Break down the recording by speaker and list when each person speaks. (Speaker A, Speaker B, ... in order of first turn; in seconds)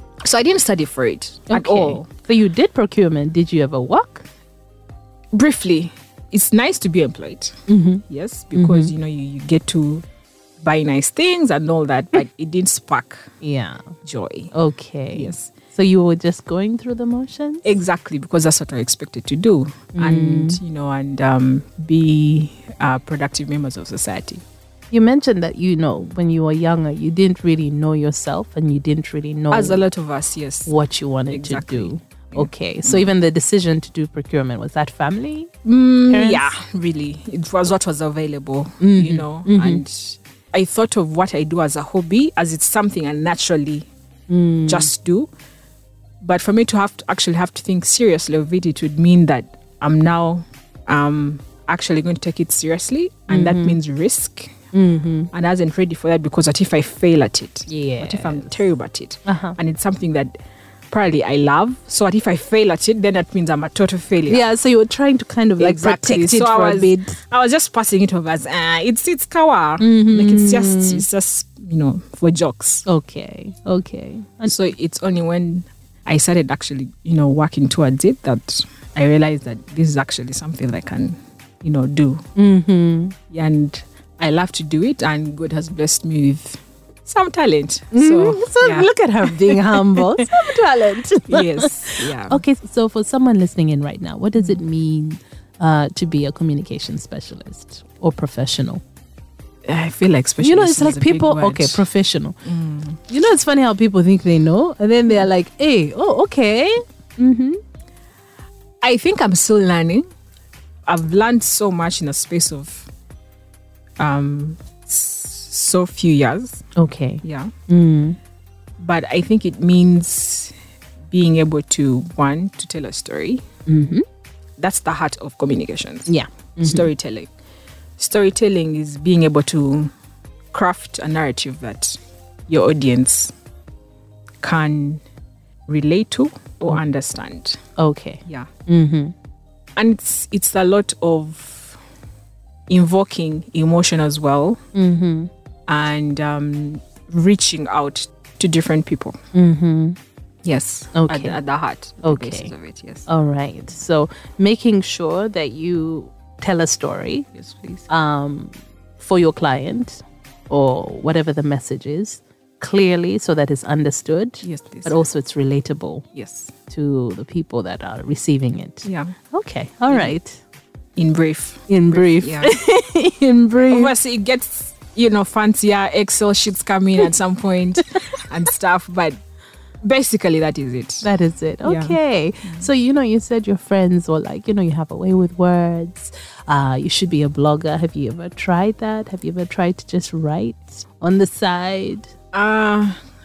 Speaker A: 0.2-2.1, 5.3-10.1, 10.6-13.3, 14.1-14.5, 15.1-15.5, 17.6-24.4, 29.5-30.7, 31.3-33.1, 35.6-43.9, 44.7-45.3, 46.2-54.5, 55.3-60.3, 60.9-64.5, 65.6-72.8, 74.5-82.2, 83.3-90.5, 91.3-92.4, 99.6-101.8, 102.4-103.0, 108.8-110.1, 110.9-112.9, 114.0-116.7, 117.2-117.5, 118.8-120.5, 121.1-123.4, 124.6-127.3, 128.0-129.9, 130.5-133.3, 134.4-135.0, 135.7-137.6, 139.8-141.8, 142.7-144.6, 145.7-149.2, 150.4-153.1, 157.3-157.9, 164.4-165.0, 166.1-166.5, 168.8-169.2, 169.9-170.2, 170.9-172.6, 173.7-179.2, 179.8-181.1, 181.6-182.7, 192.3-193.0
Speaker B: 1.5-4.2, 7.7-8.9, 13.4-13.9, 14.5-17.7, 19.9-20.6, 24.9-29.8, 30.7-35.5, 36.1-36.5, 38.8-39.8, 44.3-44.9, 53.3-53.8, 54.7-55.3, 57.7-58.6, 59.2-59.6, 64.3-67.2, 69.8-71.0, 72.9-74.5, 82.4-83.1, 87.9-98.8, 100.4-102.4, 103.1-107.6, 116.8-118.2, 123.7-124.0, 126.1-126.9, 137.8-139.1, 144.7-145.3, 149.3-150.0, 150.9-151.4, 152.0-152.5, 153.1-157.3, 157.9-166.1, 166.7-170.4, 171.7-173.9, 181.0-192.1